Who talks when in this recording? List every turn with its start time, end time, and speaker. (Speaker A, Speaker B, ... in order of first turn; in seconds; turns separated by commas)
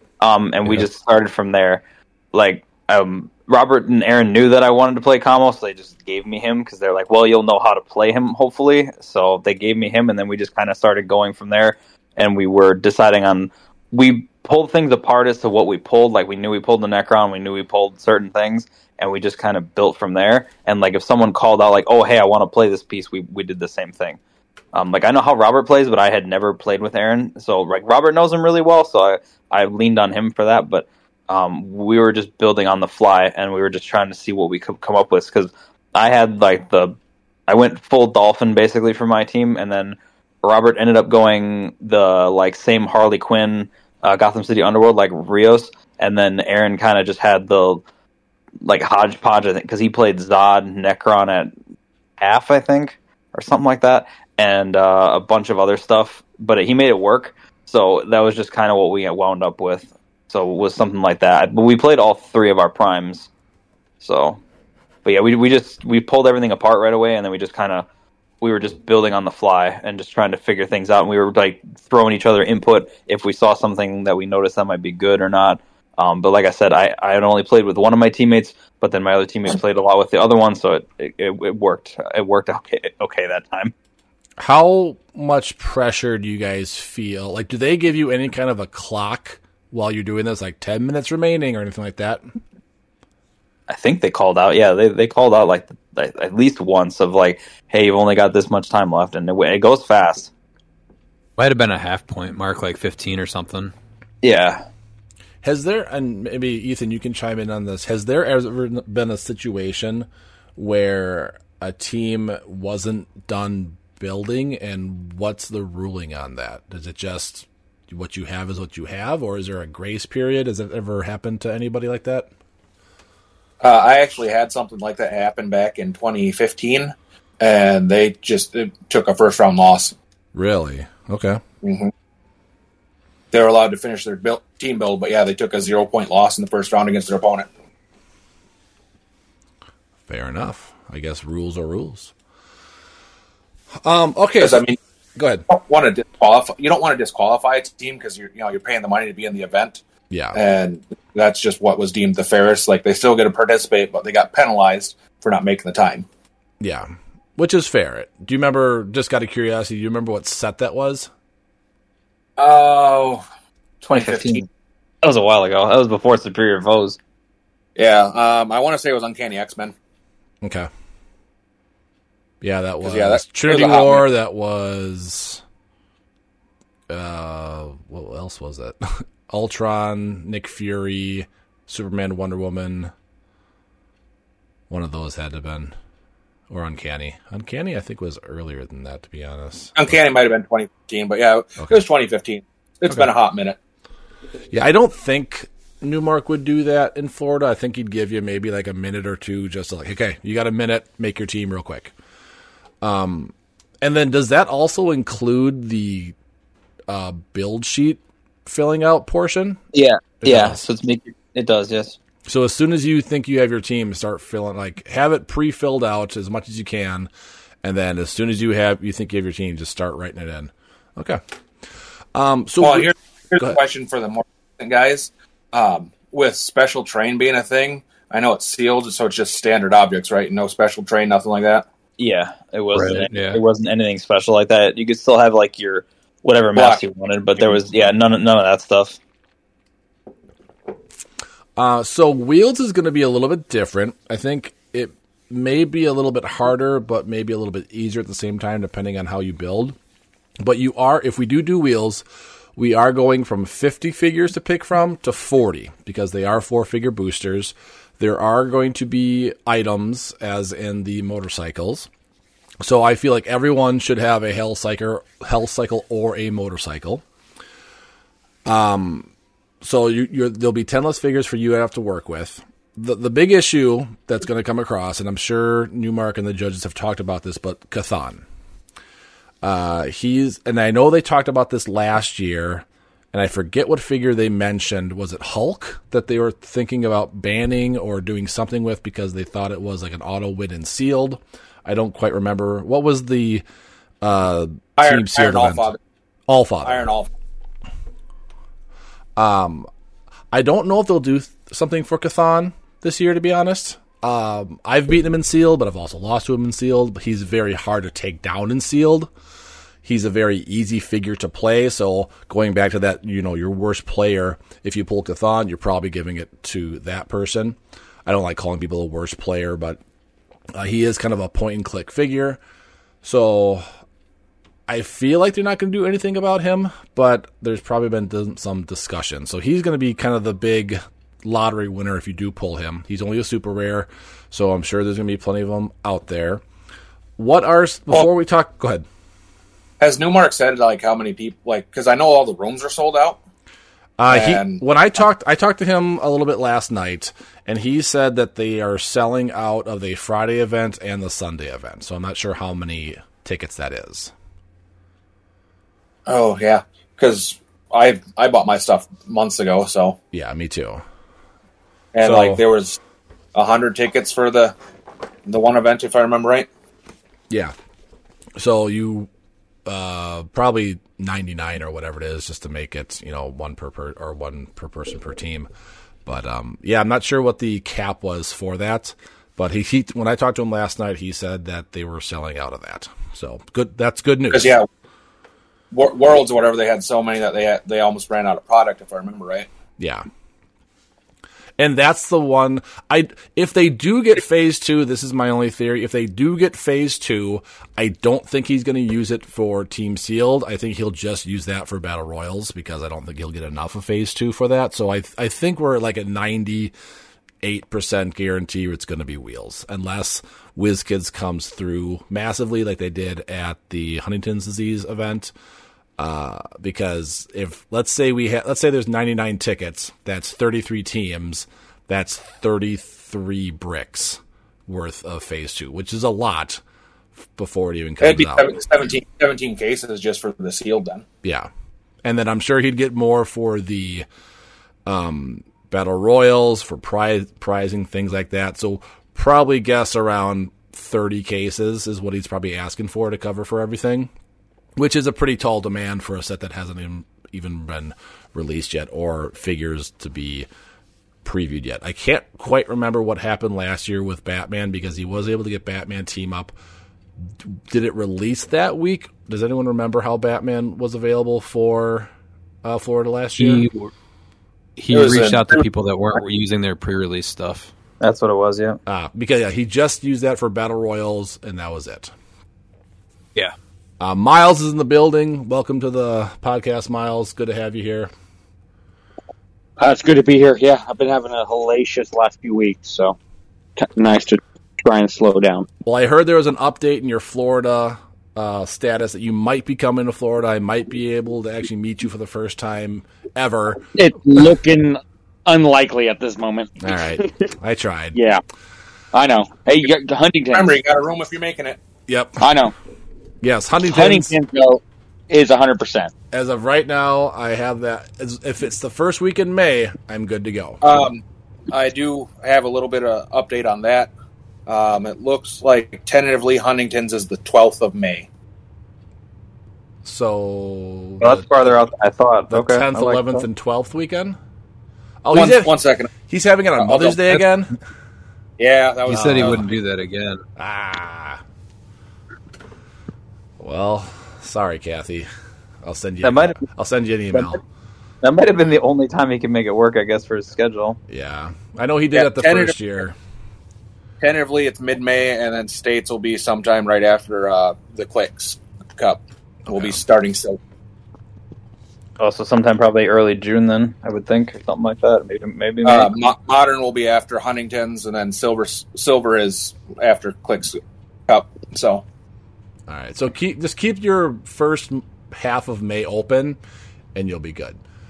Speaker A: 0.2-24.2, Speaker A: 24.7-37.0, Speaker A: 37.5-47.8, Speaker A: 48.6-51.5, Speaker A: 52.2-63.3, Speaker A: 64.0-64.4, Speaker A: 65.0-67.8, Speaker A: 68.4-83.7, Speaker B: 84.4-92.2, Speaker A: 93.7-100.3, Speaker C: 101.4-103.7, Speaker A: 104.2-104.6, Speaker B: 105.4-122.3, Speaker D: 123.6-129.9, Speaker B: 130.3-131.4, Speaker D: 131.6-131.9, Speaker D: 133.3-137.5, Speaker B: 140.1-142.1, Speaker B: 143.8-145.4, Speaker D: 144.4-144.7, Speaker D: 145.5-149.8, Speaker B: 150.1-150.4, Speaker D: 150.3-156.1, Speaker B: 156.6-161.1, Speaker D: 162.4-163.2, Speaker D: 163.8-164.4, Speaker A: 163.9-164.4, Speaker A: 165.0-167.0, Speaker D: 167.8-169.7, Speaker B: 170.4-170.7, Speaker B: 172.4-175.4, Speaker D: 172.8-174.0, Speaker B: 176.9-182.9, Speaker B: 184.7-185.7, Speaker B: 186.5-190.0, Speaker D: 189.8-193.6, Speaker B: 194.5-201.9, Speaker B: 202.8-206.1, Speaker B: 206.9-209.6, Speaker A: 209.7-212.0, Speaker B: 210.2-210.6, Speaker B: 212.2-217.1, Speaker B: 217.6-221.2, Speaker B: 222.1-223.6, Speaker D: 222.6-231.7, Speaker A: 232.0-239.0, Speaker C: 232.7-233.4, Speaker B: 241.6-249.8, Speaker B: 250.4-252.0, Speaker B: 252.6-261.9, Speaker B: 262.6-267.0, Speaker B: 268.4-269.1, Speaker B: 269.6-278.2, Speaker B: 279.4-293.4, Speaker B: 294.0-295.7, Speaker D: 294.8-295.8, Speaker B: 296.3-296.9, Speaker D: 296.6-297.1, Speaker B: 299.1-299.7, Speaker B: 300.3-309.1, Speaker B: 309.8-319.8, Speaker B: 320.5-322.4, Speaker B: 323.0-323.6, Speaker B: 324.7-336.4, Speaker B: 337.2-338.9, Speaker D: 339.8-343.2, Speaker B: 344.0-354.1, Speaker D: 344.1-344.6, Speaker D: 356.1-360.0, Speaker B: 360.1-360.8, Speaker D: 361.9-362.8, Speaker B: 362.0-362.4, Speaker D: 363.3-364.6, Speaker D: 365.2-366.5, Speaker B: 368.4-369.1, Speaker B: 369.6-375.5, Speaker B: 376.1-384.6, Speaker D: 384.3-384.7, Speaker D: 385.7-389.5, Speaker B: 389.8-390.1, Speaker B: 391.6-406.7, Speaker B: 407.4-415.3, Speaker B: 416.0-426.6, Speaker B: 427.3-428.6, Speaker D: 428.0-431.0, Speaker B: 431.2-431.5, Speaker B: 432.0-434.1, Speaker B: 434.9-444.1, Speaker B: 444.8-450.5, Speaker B: 451.2-456.5, Speaker B: 457.4-462.1, Speaker B: 462.6-463.7, Speaker C: 463.4-463.9, Speaker C: 464.8-467.7, Speaker D: 464.9-465.6, Speaker A: 468.0-468.8, Speaker B: 468.9-472.1, Speaker B: 474.0-478.1, Speaker E: 479.8-483.2, Speaker E: 483.8-485.7, Speaker B: 485.8-493.8, Speaker E: 493.9-497.3, Speaker B: 496.8-498.2, Speaker E: 498.1-498.4, Speaker E: 499.1-500.7, Speaker D: 500.5-501.8, Speaker B: 502.1-502.4, Speaker E: 502.4-502.7, Speaker B: 503.4-504.3, Speaker E: 503.9-506.1, Speaker B: 506.3-511.0, Speaker D: 510.8-514.1, Speaker D: 514.7-518.3, Speaker B: 520.0-521.8, Speaker A: 521.2-523.4, Speaker B: 522.5-524.4, Speaker B: 525.2-525.7, Speaker D: 525.3-526.1, Speaker B: 526.3-527.7, Speaker D: 526.8-527.4, Speaker D: 528.6-529.7, Speaker C: 529.0-530.4, Speaker B: 529.1-529.7, Speaker B: 530.5-531.4, Speaker B: 533.6-535.3, Speaker B: 535.8-537.6, Speaker A: 536.2-536.6, Speaker A: 538.2-541.0, Speaker B: 541.1-543.1, Speaker D: 542.1-542.8, Speaker D: 544.2-550.6, Speaker B: 549.7-550.0, Speaker A: 552.2-556.1, Speaker D: 555.8-562.0, Speaker B: 562.9-566.6, Speaker B: 567.1-567.8